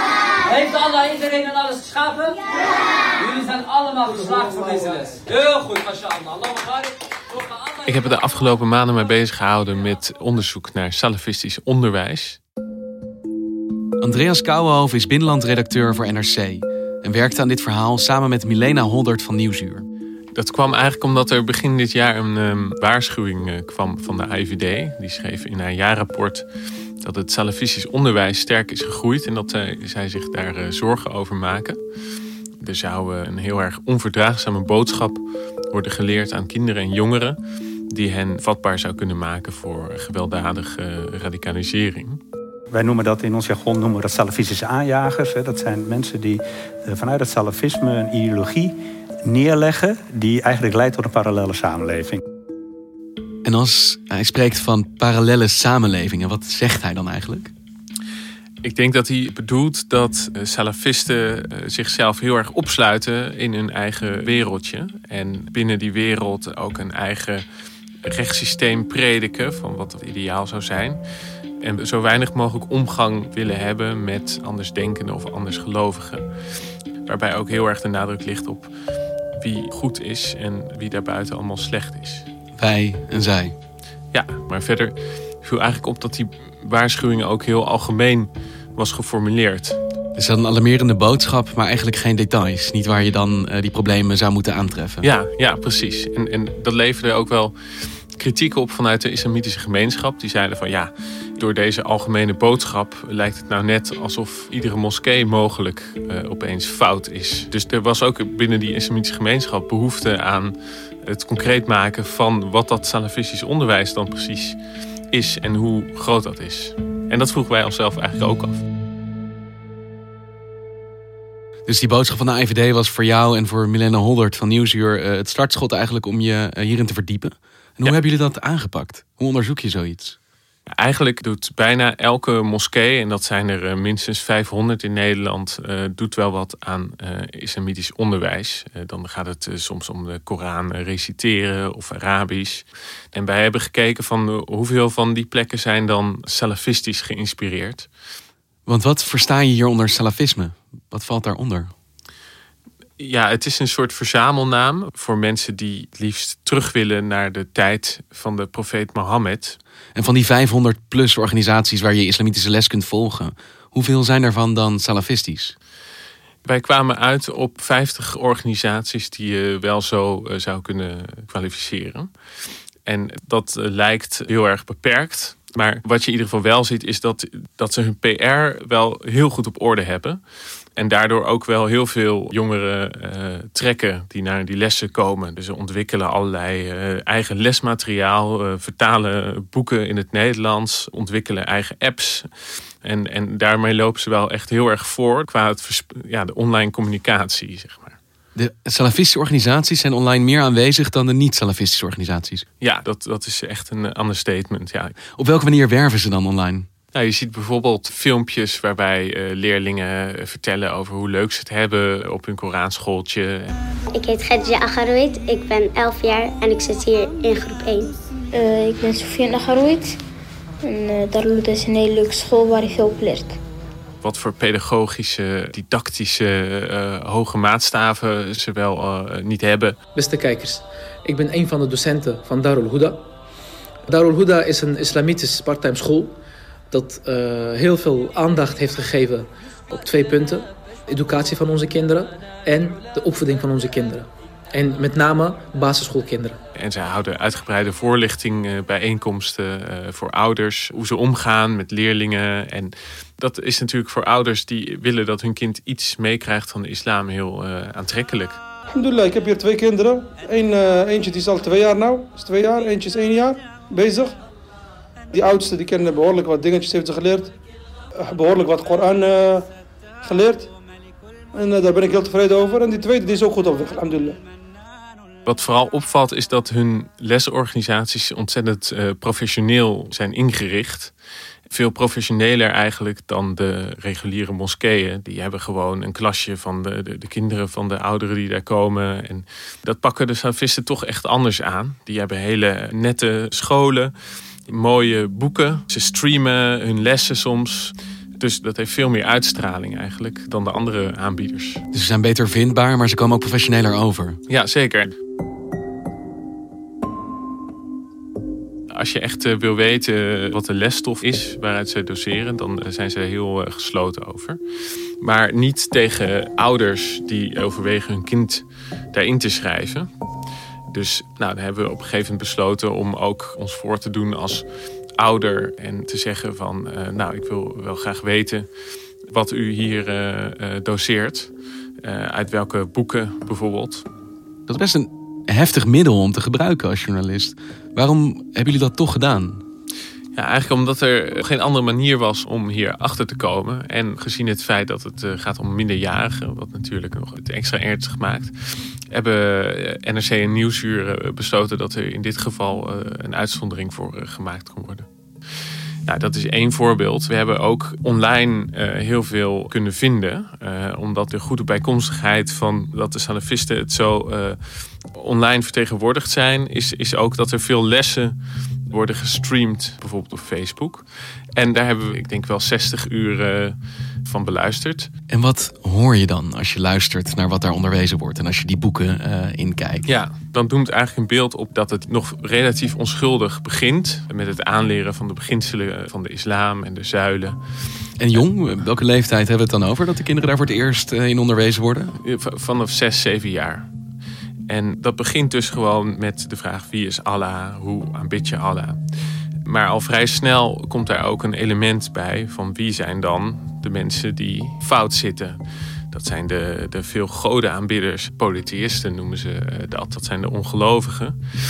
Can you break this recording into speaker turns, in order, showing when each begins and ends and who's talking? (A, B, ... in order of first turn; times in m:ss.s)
0:00.4-0:02.4 A
0:03.2-0:08.2 A
0:07.8-0:12.4 B
0:14.0-0:19.8 C
0:20.4-0:26.4 B
0:27.0-0:31.8 B
0:32.6-0:35.2 B
0:35.7-0:37.4 B
0:37.9-0:42.2 B
0:42.7-0:48.8 D
0:49.3-0:52.2 D
0:53.4-0:57.5 C
0:58.6-1:07.4 B
1:08.0-1:11.0 B
1:11.6-1:16.2 B
1:17.0-1:18.7 B
1:19.4-1:22.3 B
1:22.6-1:23.5 C
1:24.1-1:29.8 B
1:30.1-1:35.0 C
1:35.0-1:37.6 B
1:38.2-1:54.6 B
1:55.1-1:58.6 B
2:01.7-2:10.2 C
2:10.7-2:27.9 B
2:28.7-2:31.7 C
2:33.0-2:39.6 B
2:40.0-2:45.5 C
2:46.4-2:52.1 B
2:52.8-3:00.2 B
3:00.8-3:12.3 B
3:12.8-3:18.0 B
3:18.4-3:22.4 C
3:22.6-3:25.0 B
3:25.1-3:26.7 C
3:26.9-3:33.6 B
3:33.9-3:37.9 E
3:38.3-3:39.9 F
3:40.6-3:43.4 F
3:44.0-3:49.8 B
3:49.9-3:53.0 G
3:53.9-3:56.2 G
3:56.7-4:06.4 G
4:06.5-4:18.4 B
4:18.7-4:24.1 H
4:25.1-4:27.3 H
4:28.0-4:29.5 H
4:30.0-4:30.5 H
4:31.3-4:34.2 H
4:35.2-4:40.9 B
4:41.5-4:53.9 B
4:54.5-5:01.6 B
5:01.7-5:04.2 C
5:04.3-5:04.9 B
5:08.7-5:14.4 B
5:15.0-5:19.9 B
5:20.7-5:24.4 B
5:25.0-5:28.5 B
5:29.1-5:31.3 B
5:31.8-5:33.8 B
5:34.5-5:39.4 C
5:40.1-5:48.3 B
5:48.9-5:54.9 B
5:55.8-6:04.4 B
6:04.9-6:08.1 B
6:08.7-6:10.8 B
6:11.4-6:14.9 B
6:15.1-6:19.8 C
6:19.8-6:27.4 B
6:28.0-6:31.9 C
6:32.0-6:33.7 B
6:34.5-6:38.8 B
6:39.4-6:45.4 B
6:45.9-6:51.2 B